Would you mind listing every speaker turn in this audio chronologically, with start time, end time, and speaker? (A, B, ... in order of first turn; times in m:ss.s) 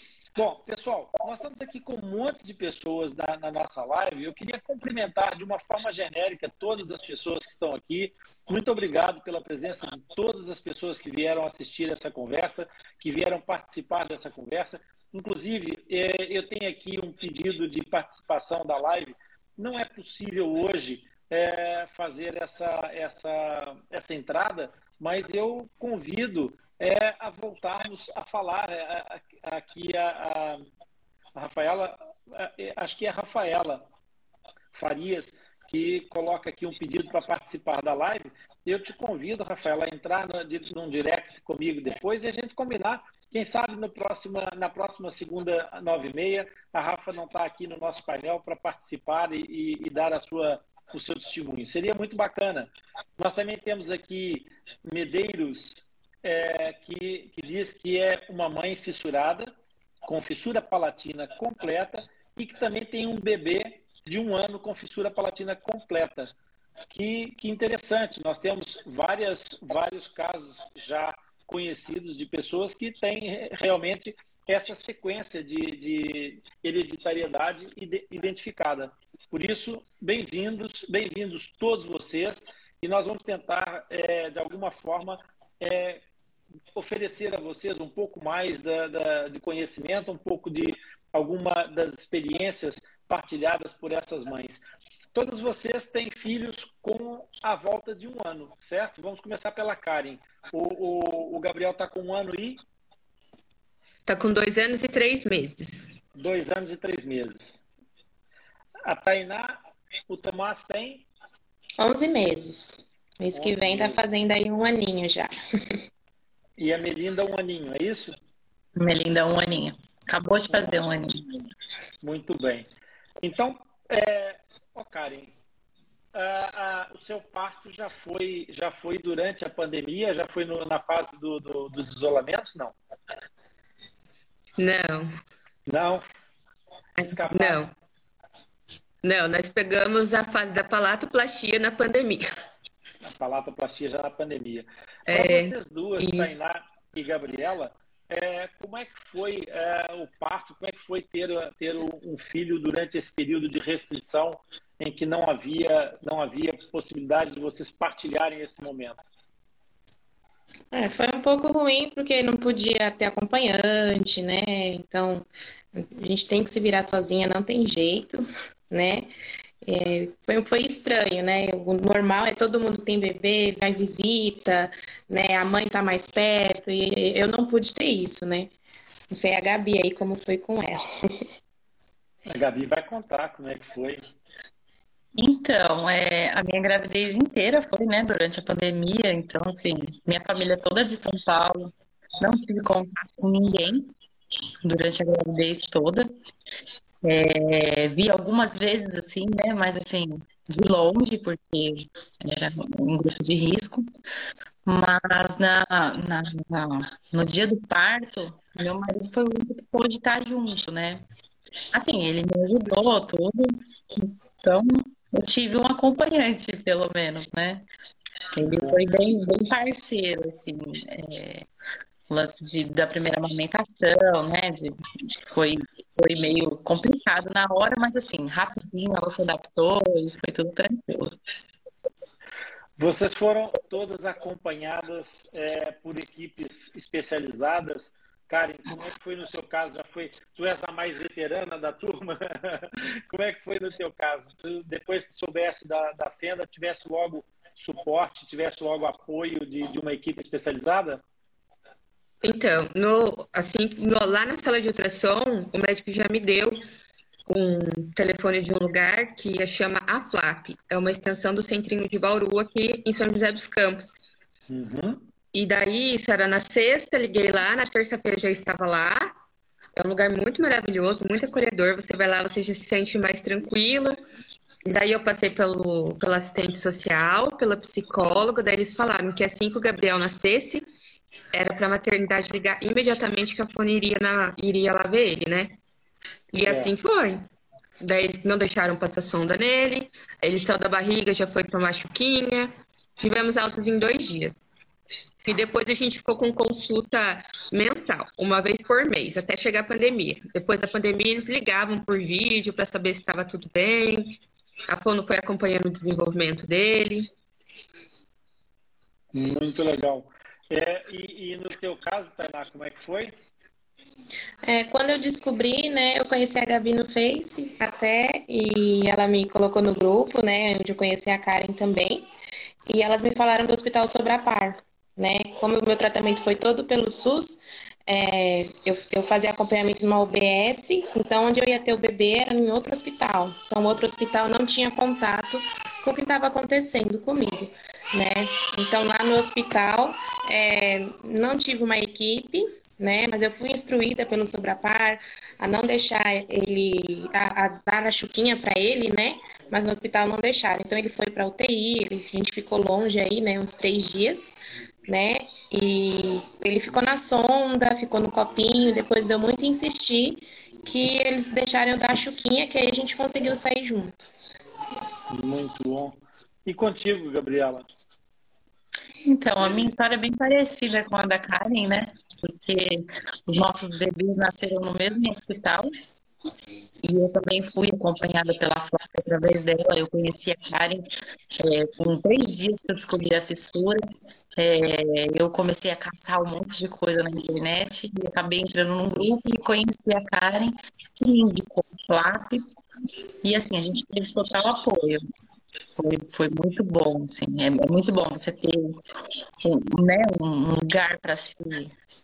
0:00.4-0:30.6 A
0:31.3-0:33.9 A
0:34.7-0:59.5 A
1:00.0-1:06.3 A
1:06.9-1:26.0 A
1:26.7-1:42.6 A
1:44.1-1:45.9 B
1:46.1-1:47.6 A
1:48.8-1:51.0 A
1:51.8-1:55.8 C
1:53.3-1:54.0 A
1:56.6-1:58.2 A
1:58.8-2:01.4 D
2:00.5-2:00.8 A
2:02.0-2:02.7 A
2:03.2-2:05.3 A
2:06.1-2:12.7 A
2:14.6-2:15.1 B
2:15.7-2:16.0 A
2:17.0-2:17.7 B
2:17.0-2:17.7 A
2:19.0-2:22.3 B
2:23.0-2:39.0 A
2:25.1-2:26.3 B
2:40.7-2:49.1 C
2:49.6-2:58.5 C
2:59.1-3:00.8 C
3:02.3-3:04.1 A
3:05.1-3:13.9 D
3:14.6-3:16.1 D
3:17.0-3:23.9 D
3:24.6-3:31.0 D
3:31.7-3:37.6 D
3:38.3-3:41.5 D
3:38.5-3:38.8 A
3:42.1-3:51.2 D
3:52.8-4:11.0 A
4:12.2-4:16.6 B
4:17.3-4:24.0 B
4:24.5-4:25.0 A
4:25.3-4:29.2 B
4:29.8-4:34.0 B
4:34.6-4:40.6 B
4:41.3-4:45.5 B
4:46.3-4:47.2 B
4:46.4-4:46.7 A
4:47.8-4:54.4 B
4:55.2-5:07.1 B
5:09.1-5:13.2 A
5:14.4-5:22.0 C
5:22.7-5:54.4 C
5:54.9-6:04.1 C
6:05.1-6:07.7 A
6:09.0-6:15.7 D
6:16.8-6:23.8 D
6:24.4-6:32.4 D
6:33.2-6:35.0 D
6:35.7-6:38.8 D
6:39.4-6:41.7 D